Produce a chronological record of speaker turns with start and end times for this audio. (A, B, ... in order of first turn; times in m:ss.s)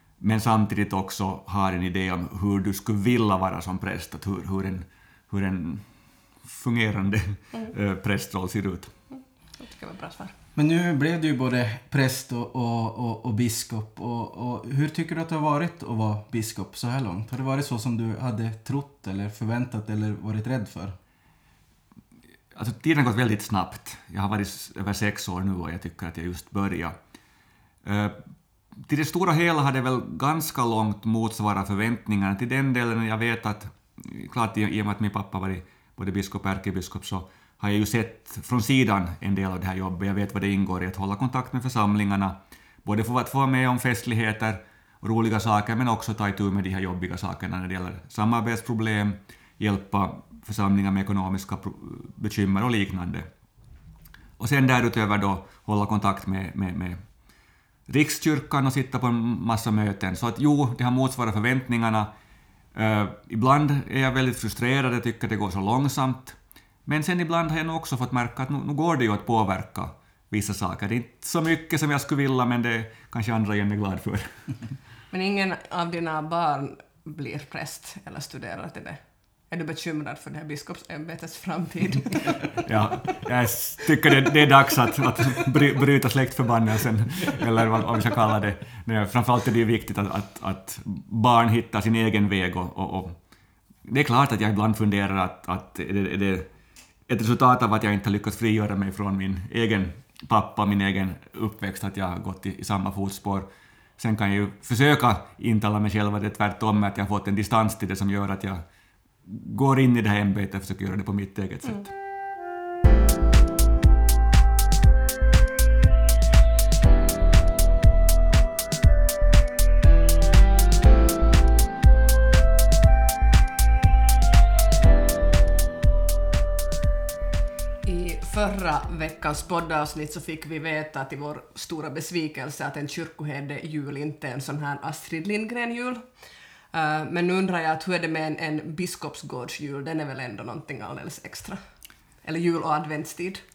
0:00.2-0:05.9 A
0:06.4-0:08.9 A
0:09.1-0:10.3 B
0:10.6-0:21.0 C
0:22.5-0:27.0 A
0:27.8-0:28.2 A
0:28.9-0:53.3 A
0:54.4-0:57.0 A
0:57.9-1:02.1 A
1:02.7-1:14.3 A
1:15.1-1:22.7 B
1:22.6-1:33.1 A
1:33.8-1:36.5 A
1:37.1-1:48.6 A
1:49.2-1:51.9 A
2:07.8-2:16.0 B
2:16.7-2:21.6 B
2:22.2-2:23.4 B